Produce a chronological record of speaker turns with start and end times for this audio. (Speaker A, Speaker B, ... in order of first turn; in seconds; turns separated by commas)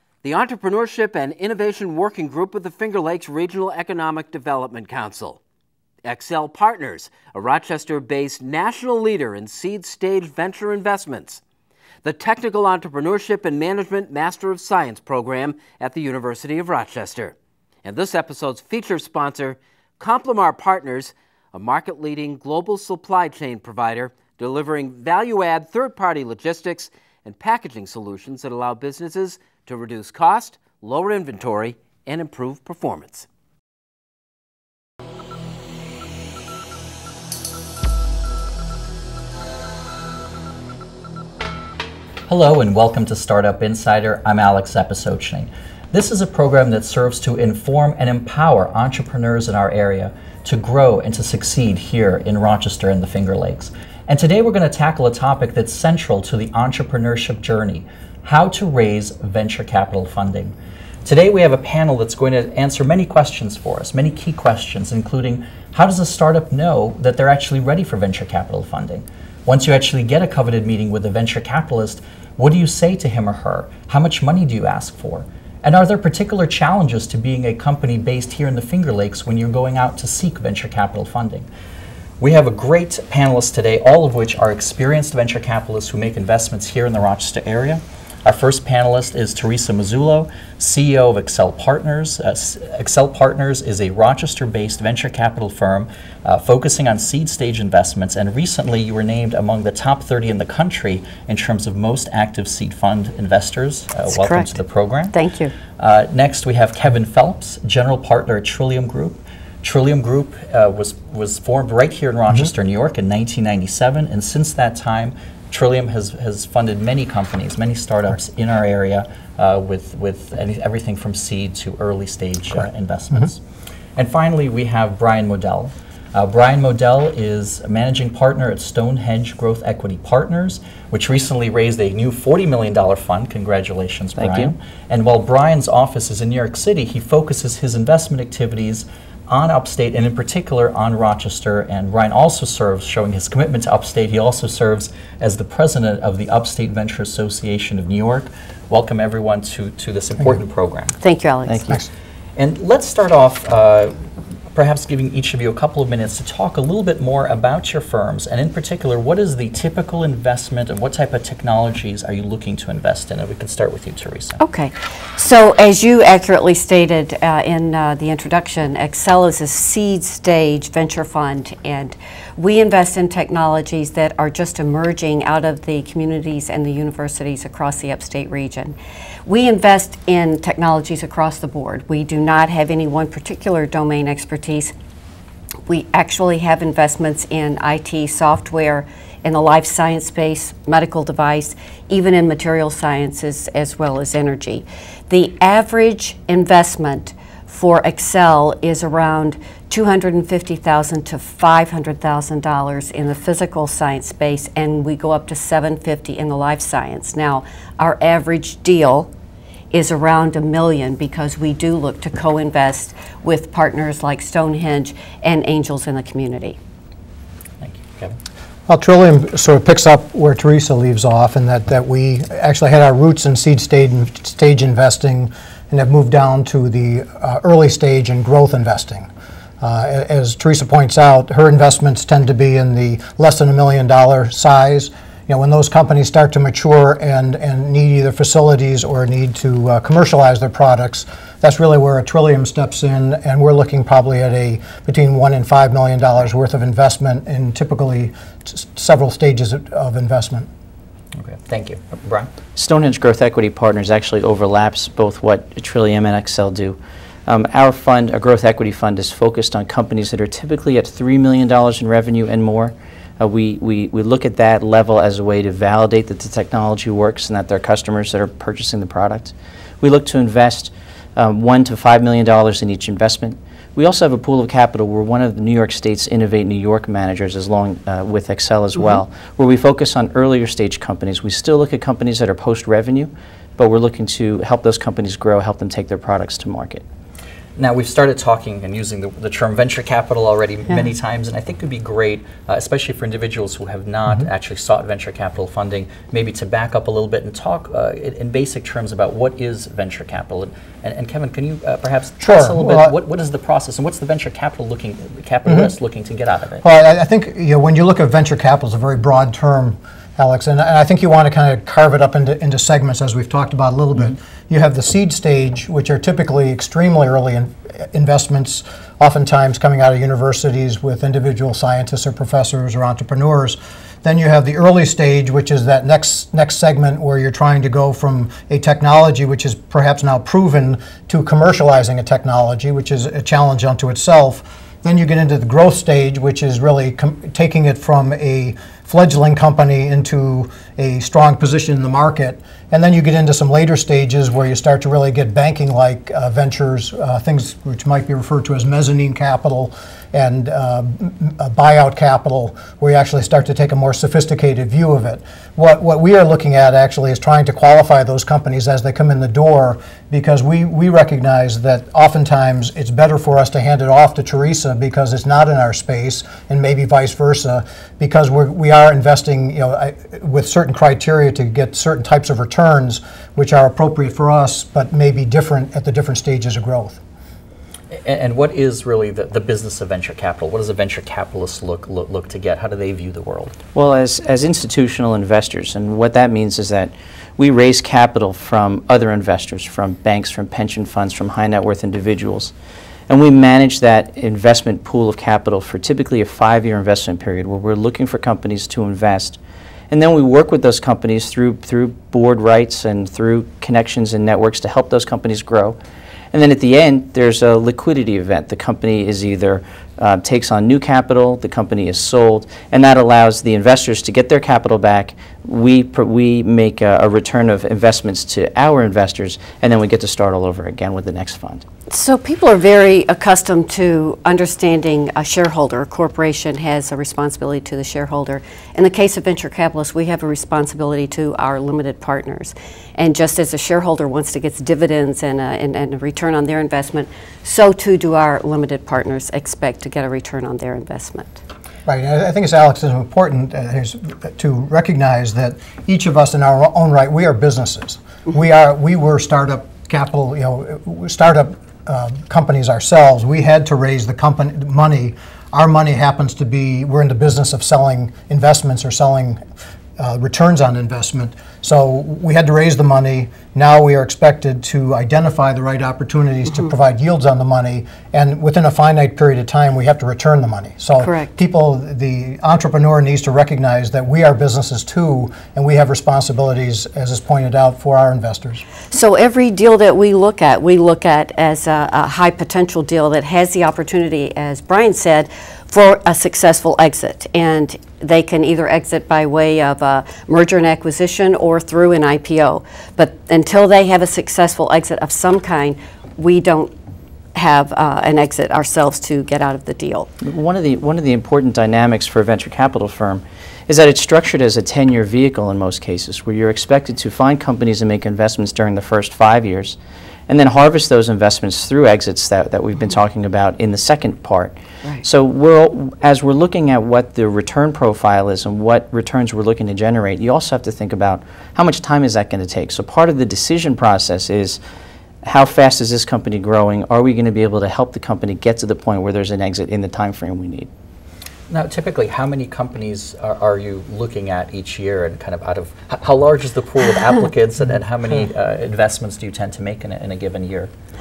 Speaker A: 0.2-5.4, Speaker A: 6.0-11.4, Speaker A: 12.0-33.3, Speaker B: 42.3-81.5, Speaker B: 82.2-105.1, Speaker C: 104.1-104.6, Speaker C: 105.1-105.5, Speaker B: 105.8-123.4, Speaker B: 124.0-150.9, Speaker D: 134.2-134.5, Speaker C: 151.0-151.8, Speaker D: 151.4-151.7, Speaker B: 152.3-153.9, Speaker B: 154.5-164.4, Speaker C: 164.4-184.7, Speaker C: 185.7-209.1, Speaker C: 209.7-216.6, Speaker B: 217.6-218.2, Speaker E: 218.7-229.1, Speaker E: 229.6-250.5, Speaker B: 251.2-252.3, Speaker D: 252.6-286.8, Speaker B: 287.6-306.6, Speaker E: 302.2-302.9, Speaker E: 306.6-377.0, Speaker B: 377.9-383.6, Speaker D: 383.7-392.5, Speaker D: 393.1-399.4, Speaker D: 399.9-405.8, Speaker D: 406.3-421.6, Speaker C: 421.9-441.4, Speaker E: 441.9-459.4, Speaker E: 460.0-478.6, Speaker C: 471.0-471.3, Speaker C: 478.9-496.7, Speaker C: 497.3-500.1, Speaker D: 500.2-509.8, Speaker D: 510.3-524.6, Speaker D: 525.2-530.7, Speaker B: 531.5-540.7